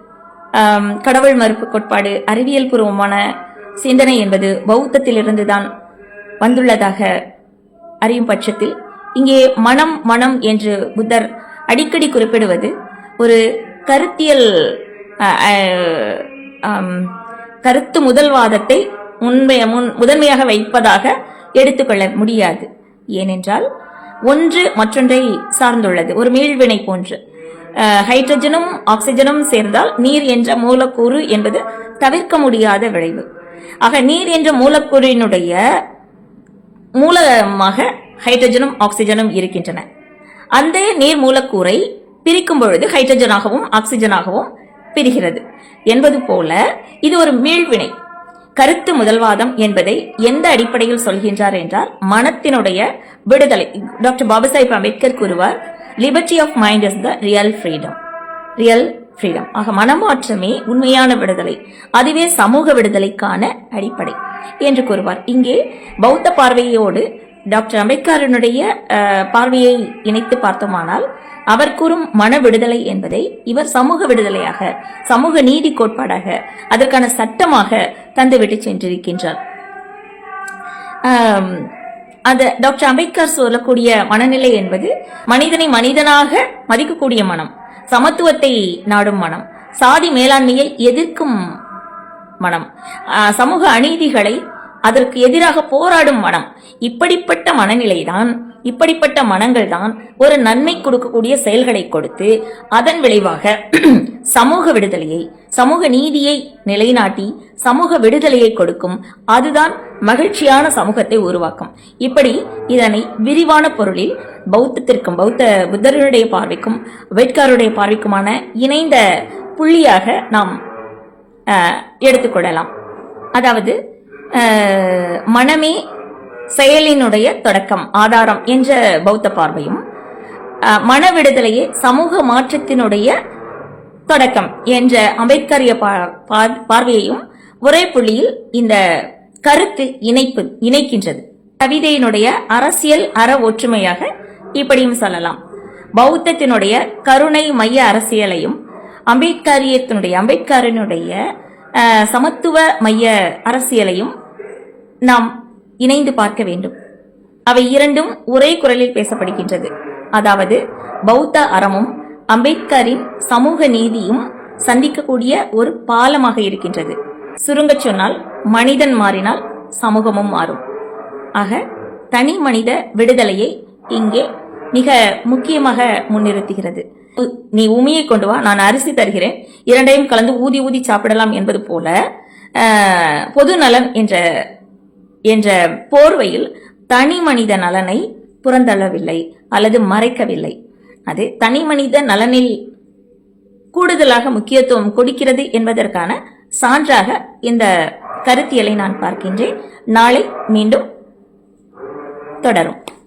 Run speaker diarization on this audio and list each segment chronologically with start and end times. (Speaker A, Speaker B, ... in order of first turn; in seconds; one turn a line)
Speaker A: 0.5-3.2
Speaker A: 3.8-5.7
Speaker A: 6.4-7.1
Speaker A: 8.0-17.1
Speaker A: 17.6-23.6
Speaker A: 24.3-27.2
Speaker A: 27.8-33.2
Speaker A: 33.8-35.6
Speaker A: 37.0-39.8
Speaker A: 40.5-47.9
Speaker A: 48.6-58.0
Speaker A: 58.6-79.4
Speaker A: 81.0-81.7
Speaker A: 82.3-91.4
Speaker A: 92.4-119.0
Speaker A: 119.6-120.6
Speaker A: 121.5-122.7
Speaker A: 123.3-123.7
Speaker A: 124.3-125.8
Speaker A: 126.5-129.8
Speaker A: 130.7-133.1
Speaker A: 134.1-138.8
Speaker A: 139.4-145.4
Speaker A: 146.0-148.6
Speaker A: 149.1-151.2
Speaker A: 151.8-154.1
Speaker A: 155.8-156.7
Speaker A: 157.5-170.6
Speaker A: 171.3-171.6
Speaker A: 172.1-181.9
Speaker A: 182.6-184.2
Speaker A: 185.3-190.5
Speaker A: 191.1-192.5
Speaker A: 193.7-197.7
Speaker A: 198.2-200.8
Speaker A: 202.4-202.8